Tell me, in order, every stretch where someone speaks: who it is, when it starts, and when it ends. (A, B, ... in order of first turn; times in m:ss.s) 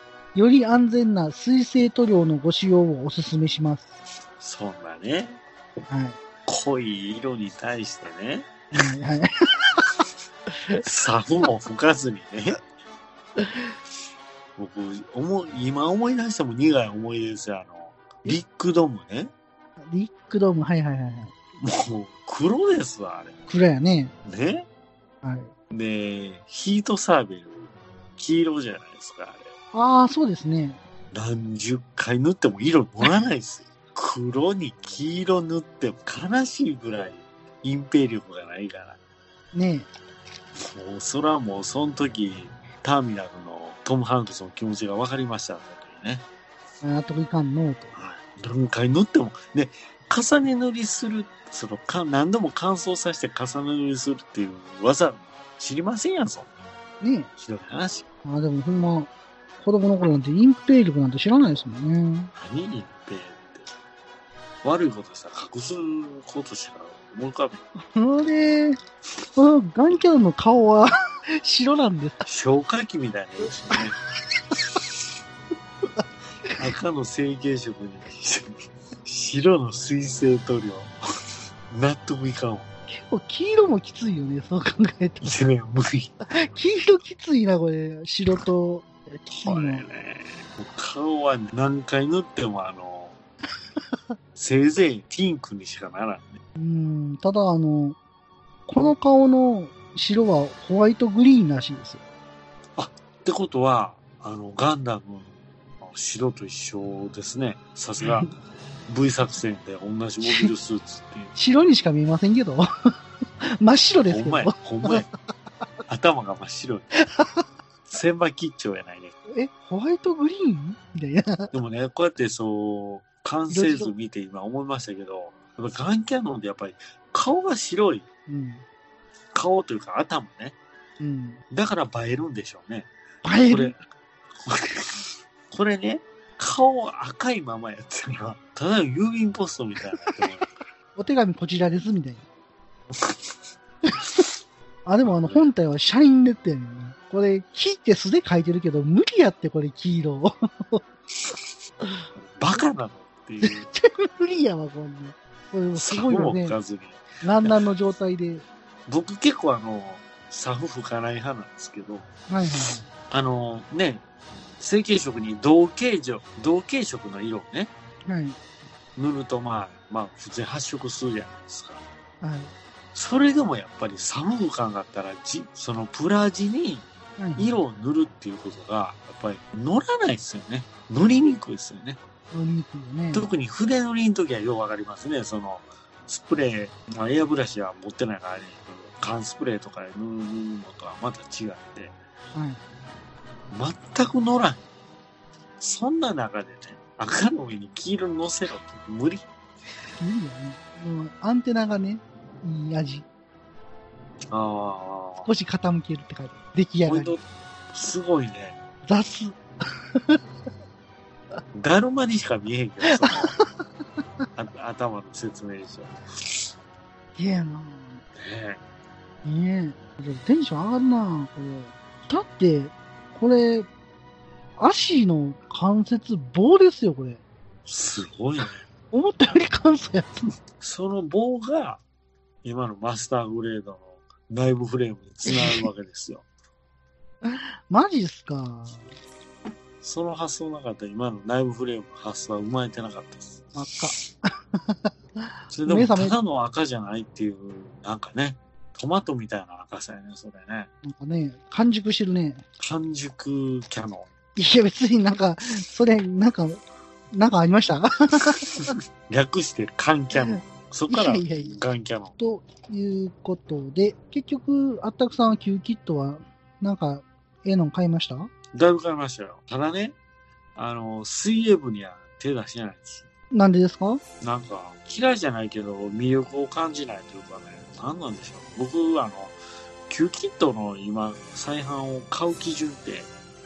0:00.3-0:03.9 A
0:04.4-0:05.4 B
0:05.9-0:06.2 A
0:06.4-0:08.5 B
0:08.7-0:10.0 A
0:10.7-0:12.6 B
0:14.6-0:19.3 B
0:19.8-0:21.3 A
0:21.6-0:23.3 B
0:23.5-0:24.1 A
0:24.2-0:24.7 B
0:25.2-0:25.5 A
0:25.7-0:29.5 B
0:29.7-0:30.8 A
0:31.1-0:39.0 B
0:39.5-0:39.9 A
0:40.6-0:46.2 B
0:46.8-0:47.9 A
0:47.9-0:56.5 B
0:57.0-0:57.3 A
0:57.4-0:58.0 B
0:58.2-1:02.3 A
1:02.3-1:03.7 B
1:04.6-1:07.6 B
1:07.7-1:08.8 A
1:09.3-1:12.2 A
1:12.2-1:14.0 B
1:14.5-1:15.0 B
1:16.6-1:21.0 B
1:21.7-1:22.7 B
1:22.9-1:25.3 A
1:25.2-1:26.1 B
1:26.3-1:29.8 A
1:29.4-1:33.2 B
1:34.3-1:36.4 B
1:36.6-1:38.0 A
1:38.7-1:42.0 A
1:42.8-1:48.3 B
1:48.0-1:48.3 A
1:48.9-1:51.3 B
1:50.2-1:50.5 A
1:51.3-1:52.7 A
1:53.4-1:55.0 A
1:54.1-1:55.1 B
1:55.9-1:56.9 B
1:57.0-1:57.4 A
1:57.9-1:59.1 B
1:59.3-2:01.5 A
2:01.5-2:08.0 B
2:03.5-2:03.9 A
2:08.3-2:08.6 A
2:09.3-2:10.6 B
2:11.0-2:11.4 A
2:11.5-2:12.9 B
2:13.2-2:13.8 A
2:13.4-2:13.8 B
2:14.3-2:20.4 B
2:20.1-2:20.3 A
2:21.0-2:22.2 A
2:23.8-2:24.2 A
2:24.8-2:30.8 A
2:25.0-2:25.4 B
2:32.4-2:33.7 B
2:33.4-2:36.6 A
2:35.7-2:37.6 B
2:37.2-2:38.4 A
2:38.9-2:42.1 B
2:42.3-2:42.9 A
2:43.1-2:44.0 B
2:44.6-2:47.7 B
2:48.1-2:48.4 A
2:49.0-2:51.8 B
2:52.2-2:52.5 A
2:52.9-3:02.0 B
2:57.2-2:57.6 A
3:02.3-3:03.3 A
3:03.1-3:12.0 B
3:12.3-3:12.6 A
3:13.5-3:14.6 B
3:15.6-3:19.2 B
3:20.0-3:23.0 A
3:24.3-3:25.3 B
3:25.2-3:27.2 A
3:26.8-3:28.6 B
3:28.8-3:29.4 A
3:29.9-3:30.2 A
3:31.5-3:33.3 B
3:32.8-3:33.5 A
3:34.4-3:36.4 B
3:37.2-3:38.0 A
3:38.1-3:38.6 B
3:39.2-3:43.7 A
3:44.6-3:47.2 A
3:47.6-3:48.6 B
3:48.9-3:50.2 A
3:50.6-3:51.8 B
3:52.4-3:56.2 B
3:55.3-3:55.7 A
3:57.2-3:58.9 A
3:59.8-4:03.4 B
4:03.5-4:06.2 A
4:05.5-4:10.7 B
4:10.8-4:12.4 A
4:12.6-4:14.1 B
4:14.4-4:18.7 A
4:18.7-4:22.1 B
4:20.2-4:21.5 A
4:22.2-4:28.3 A
4:28.5-4:30.0 B
4:30.6-4:33.1 B
4:33.3-4:34.0 A
4:34.2-4:39.3 B
4:39.9-4:43.1 B